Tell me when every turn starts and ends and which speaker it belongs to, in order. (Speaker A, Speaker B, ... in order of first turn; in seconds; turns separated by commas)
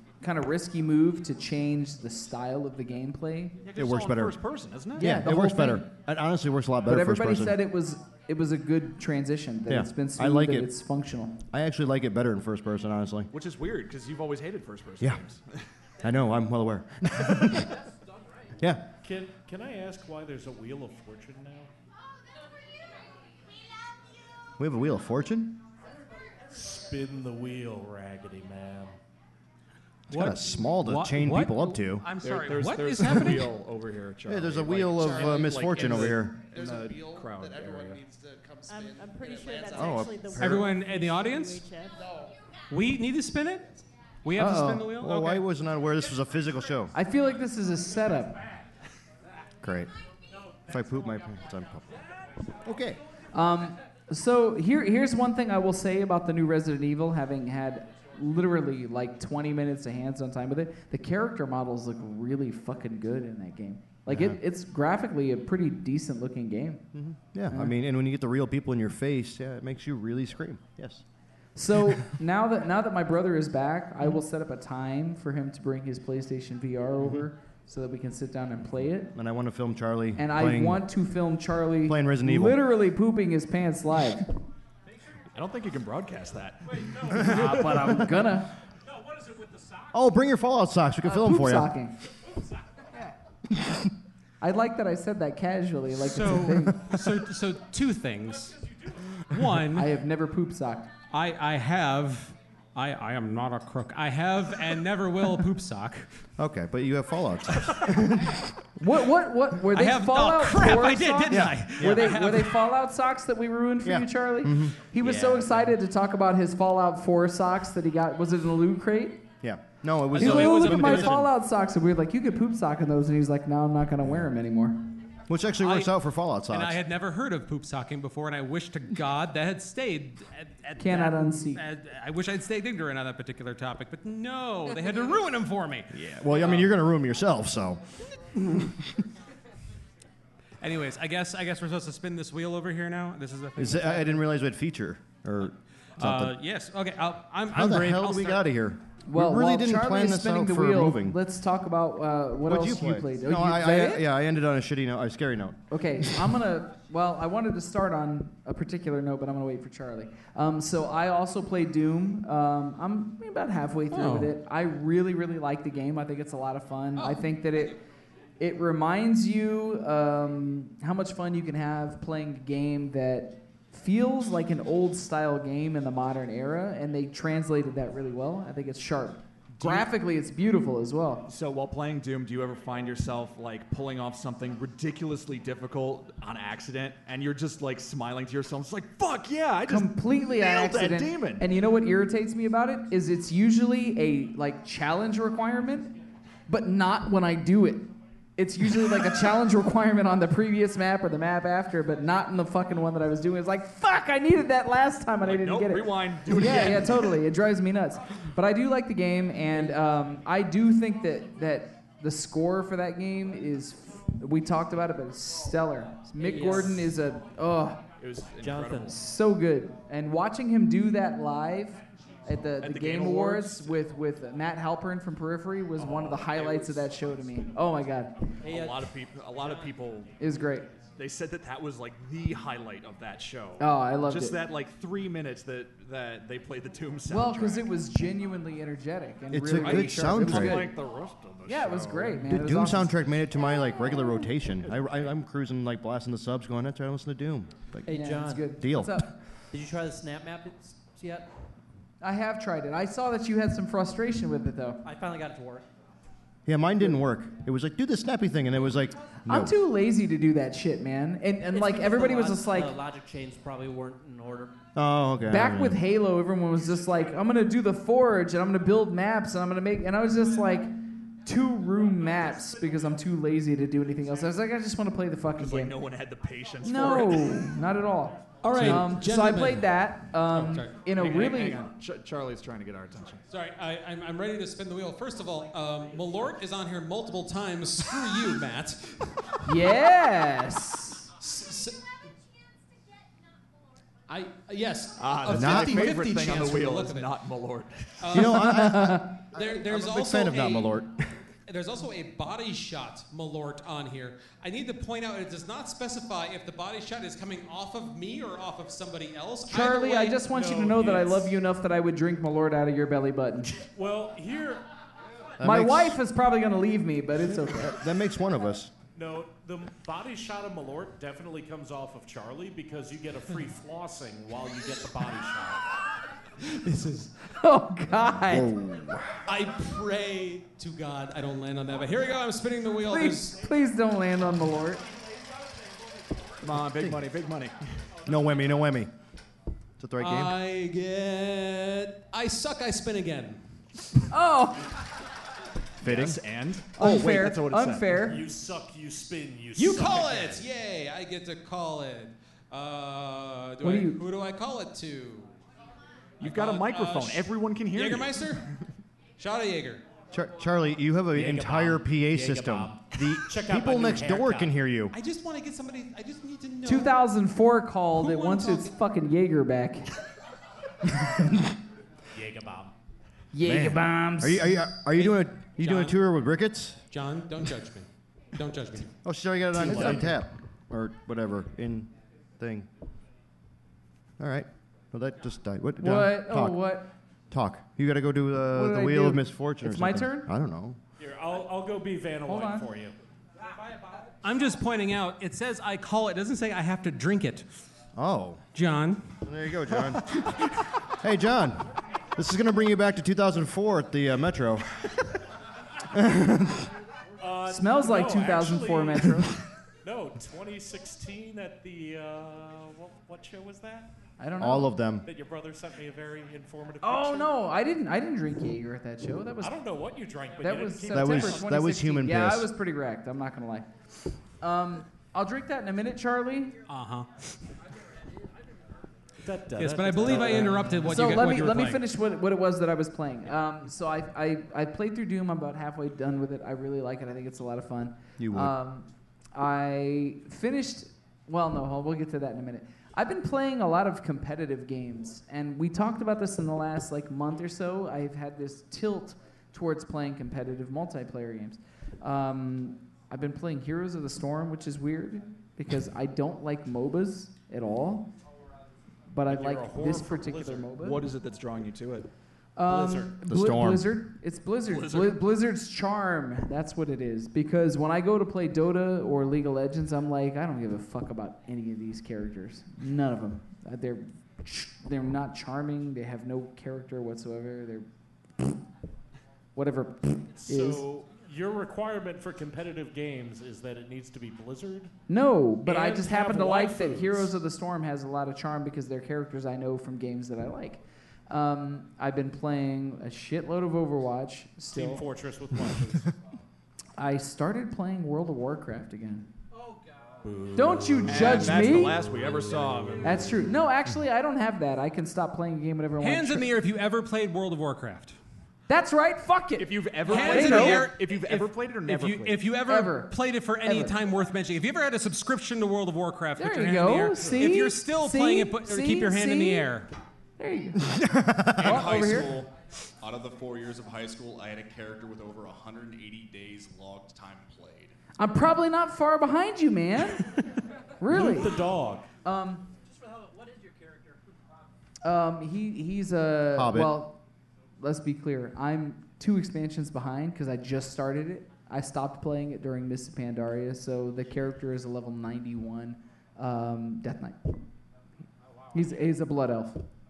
Speaker A: 0.2-3.6, Speaker B: 3.6-5.1, Speaker C: 3.8-4.4, Speaker A: 5.0-5.9, Speaker C: 5.0-7.6, Speaker A: 6.8-11.4, Speaker C: 9.7-10.7, Speaker C: 11.5-13.3, Speaker B: 13.3-15.6, Speaker C: 16.0-17.8, Speaker C: 18.6-18.9, Speaker D: 19.0-21.7, Speaker C: 24.6-25.6, Speaker D: 26.5-29.0, Speaker C: 30.1-32.0, Speaker E: 30.1-33.5, Speaker B: 32.2-38.0, Speaker C: 34.2-36.4, Speaker F: 34.9-40.5, Speaker G: 38.7-42.0, Speaker C: 39.7-40.7, Speaker E: 40.4-41.6, Speaker E: 42.7-45.4, Speaker A: 44.4-44.9, Speaker C: 44.9-46.9, Speaker A: 46.9-48.4, Speaker C: 49.6-49.9, Speaker C: 50.7-52.0, Speaker C: 52.6-53.0, Speaker A: 53.3-66.8, Speaker C: 64.1-64.4, Speaker C: 66.9-71.0, Speaker A: 71.5-79.1, Speaker C: 77.0-77.2, Speaker C: 79.1-80.8, Speaker A: 80.2-84.3, Speaker C: 81.8-82.6, Speaker B: 85.3-87.7, Speaker D: 86.8-87.9, Speaker A: 87.2-88.5, Speaker D: 88.9-89.9, Speaker C: 89.9-91.7, Speaker A: 91.0-91.9, Speaker C: 93.5-93.8, Speaker A: 94.4-96.8, Speaker E: 96.0-98.5, Speaker E: 99.3-99.9, Speaker A: 99.7-100.9, Speaker E: 101.1-106.1, Speaker C: 106.4-108.5, Speaker A: 108.8-119.2, Speaker E: 109.7-112.6, Speaker C: 111.3-112.1, Speaker C: 113.8-114.8, Speaker E: 115.0-115.4, Speaker C: 119.4-121.3, Speaker E: 120.1-121.3, Speaker A: 120.2-124.8, Speaker C: 125.3-126.8, Speaker E: 125.6-125.9, Speaker E: 126.5-136.7, Speaker A: 130.8-131.6, Speaker C: 135.9-139.0, Speaker E: 140.6-144.2, Speaker C: 143.6-146.4, Speaker E: 146.0-148.5, Speaker C: 147.5-151.2, Speaker A: 149.1-154.0, Speaker C: 152.4-156.1, Speaker A: 155.7-167.8, Speaker E: 163.9-164.3, Speaker A: 168.4-181.2, Speaker B: 179.6-179.9, Speaker B: 181.3-191.5, Speaker A: 189.7-195.9, Speaker A: 196.5-217.8, Speaker B: 205.2-207.2, Speaker H: 216.2-216.9, Speaker B: 218.0-218.9, Speaker H: 218.4-218.9, Speaker A: 218.8-228.2, Speaker B: 222.6-223.7, Speaker B: 225.8-226.9, Speaker H: 228.4-229.7, Speaker B: 228.4-230.1, Speaker A: 230.2-230.7, Speaker B: 231.0-237.7, Speaker A: 233.6-234.4, Speaker A: 237.1-240.8, Speaker C: 239.3-240.7, Speaker B: 239.5-242.3, Speaker A: 241.4-243.0, Speaker C: 242.2-247.9, Speaker H: 247.8-248.5, Speaker A: 247.9-249.1, Speaker C: 248.5-249.1, Speaker H: 249.5-251.3, Speaker A: 252.0-254.8, Speaker H: 254.8-255.6, Speaker C: 256.4-259.5, Speaker A: 259.3-262.7, Speaker H: 261.5-264.6, Speaker C: 264.7-265.8, Speaker A: 265.3-275.7, Speaker B: 275.4-277.6, Speaker A: 276.6-281.6, Speaker E: 278.4-279.7, Speaker E: 280.3-280.7, Speaker B: 280.9-283.2, Speaker E: 283.3-289.4, Speaker A: 289.4-291.1, Speaker E: 291.2-291.8, Speaker E: 294.1-297.1, Speaker B: 295.0-298.1, Speaker C: 295.3-295.9, Speaker E: 298.0-298.7, Speaker C: 298.1-301.1, Speaker A: 298.2-299.1, Speaker E: 299.3-300.8, Speaker E: 301.5-310.2, Speaker A: 309.5-313.6, Speaker D: 310.2-311.3, Speaker D: 313.6-314.6, Speaker C: 315.4-316.0, Speaker A: 315.4-317.8, Speaker C: 317.6-318.7, Speaker D: 318.9-325.6, Speaker E: 326.6-327.1, Speaker A: 327.2-328.5, Speaker C: 328.2-329.2, Speaker E: 329.2-333.4, Speaker A: 332.9-334.8, Speaker B: 336.4-337.6, Speaker C: 336.5-337.0, Speaker C: 338.0-338.9, Speaker C: 339.8-340.3, Speaker E: 340.0-343.4, Speaker A: 344.1-344.8, Speaker C: 345.8-346.2, Speaker B: 345.8-348.1, Speaker A: 346.8-348.2, Speaker D: 348.0-350.4, Speaker E: 349.6-355.3, Speaker A: 353.6-354.0, Speaker B: 356.2-358.4, Speaker E: 356.2-358.5, Speaker E: 359.2-359.8, Speaker C: 360.1-364.9, Speaker D: 361.1-364.5, Speaker E: 364.9-367.0, Speaker A: 366.6-369.9, Speaker E: 368.0-368.7, Speaker A: 370.9-371.2, Speaker D: 372.1-372.7, Speaker A: 373.3-374.5, Speaker C: 373.4-376.8, Speaker E: 374.9-376.0, Speaker E: 376.9-378.9, Speaker C: 379.0-382.7, Speaker A: 379.6-380.1, Speaker C: 384.2-386.6, Speaker A: 385.8-386.9, Speaker C: 387.3-390.8, Speaker A: 388.5-390.3, Speaker D: 391.0-392.9, Speaker A: 392.2-392.7, Speaker E: 394.2-397.4, Speaker C: 397.9-398.4, Speaker E: 398.5-399.1, Speaker C: 399.2-400.1, Speaker C: 400.9-405.1, Speaker C: 405.9-406.7, Speaker D: 407.2-409.3, Speaker A: 407.5-409.3, Speaker D: 409.8-413.9, Speaker A: 414.2-414.7, Speaker C: 414.4-415.1, Speaker D: 415.0-417.3, Speaker A: 416.8-419.6, Speaker D: 419.4-421.4, Speaker A: 420.4-423.7, Speaker C: 420.9-422.5, Speaker A: 424.4-426.6, Speaker E: 426.7-427.4, Speaker D: 429.2-431.2, Speaker E: 429.6-431.8, Speaker A: 430.9-458.1, Speaker C: 438.2-438.5, Speaker A: 459.1-461.0, Speaker D: 459.2-460.7, Speaker B: 460.8-462.1, Speaker A: 462.6-477.9, Speaker D: 462.7-463.2, Speaker C: 463.3-463.9, Speaker B: 464.7-465.2, Speaker A: 479.6-480.9, Speaker D: 480.4-484.9, Speaker A: 485.1-495.0, Speaker D: 485.6-487.3, Speaker D: 494.7-496.1, Speaker A: 497.0-499.3, Speaker D: 500.2-502.2, Speaker A: 500.5-502.1, Speaker B: 501.1-503.4, Speaker A: 503.0-506.5, Speaker E: 506.0-508.1, Speaker A: 508.7-510.9, Speaker B: 509.6-512.5, Speaker E: 510.1-519.9, Speaker A: 512.6-514.0, Speaker A: 516.4-519.7, Speaker D: 517.2-517.5, Speaker A: 520.4-520.9, Speaker C: 520.9-521.8, Speaker F: 521.5-527.9, Speaker A: 521.5-522.4, Speaker A: 528.2-530.4, Speaker A: 531.0-531.6, Speaker D: 531.1-532.1, Speaker A: 532.2-532.6, Speaker A: 535.0-537.2, Speaker C: 536.5-536.9, Speaker A: 537.8-547.6, Speaker A: 548.7-549.8